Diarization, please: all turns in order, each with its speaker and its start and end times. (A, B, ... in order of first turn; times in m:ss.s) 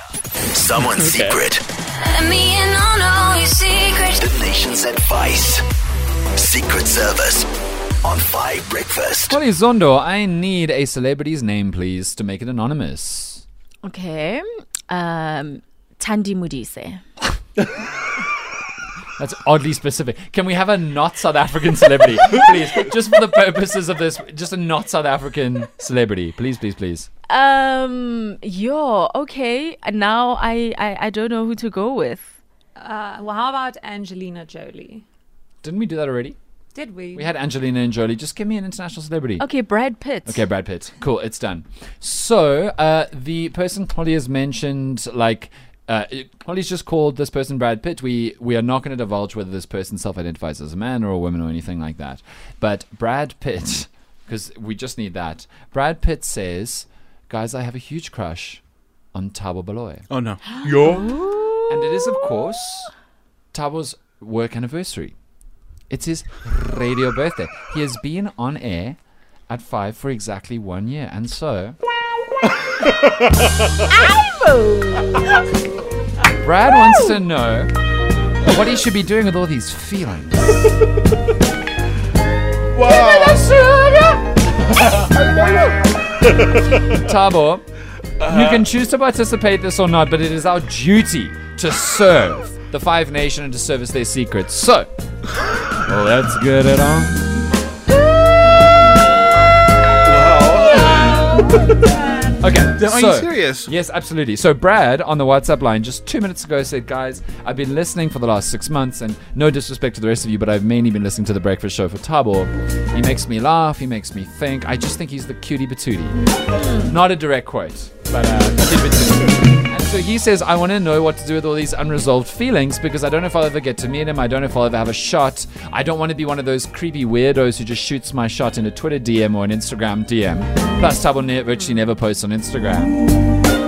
0:00.6-0:01.6 A
0:02.1-0:04.2 B
0:04.2-0:05.6 A
0:06.4-0:07.4 A
0:08.0-0:09.3 A
0:09.3-0:13.4 C
0:13.8-0:17.0 D
0:19.2-0:27.1 C
0:27.3-0:32.3 D
0:32.8-0:35.0 E
0:35.6-0:36.4 C
0:36.7-0:37.3 E
0:37.1-0:39.5 C
0:39.4-0:40.4 D
0:40.3-0:58.6 C
0:59.1-1:00.1 C
1:00.1-1:01.2 F
1:01.0-1:01.7 D
1:01.7-1:02.9 C
1:03.5-1:05.1 C
1:05.9-1:09.0 C
1:09.5-1:11.8 C
1:12.8-1:13.5 F
1:13.9-1:15.4 D
1:16.4-1:17.7 C
1:18.4-1:20.7 C
1:22.8-1:23.6 F
1:22.9-1:25.3 C
1:26.3-1:26.5 F
1:26.9-1:27.6 C
1:28.2-1:28.7 F
1:28.3-1:34.9 C
1:35.9-1:37.3 C
1:40.0-1:41.6 F
1:42.4-1:56.2 C
1:42.8-1:43.7 F
1:56.5-1:56.9 D
1:56.8-2:13.0 C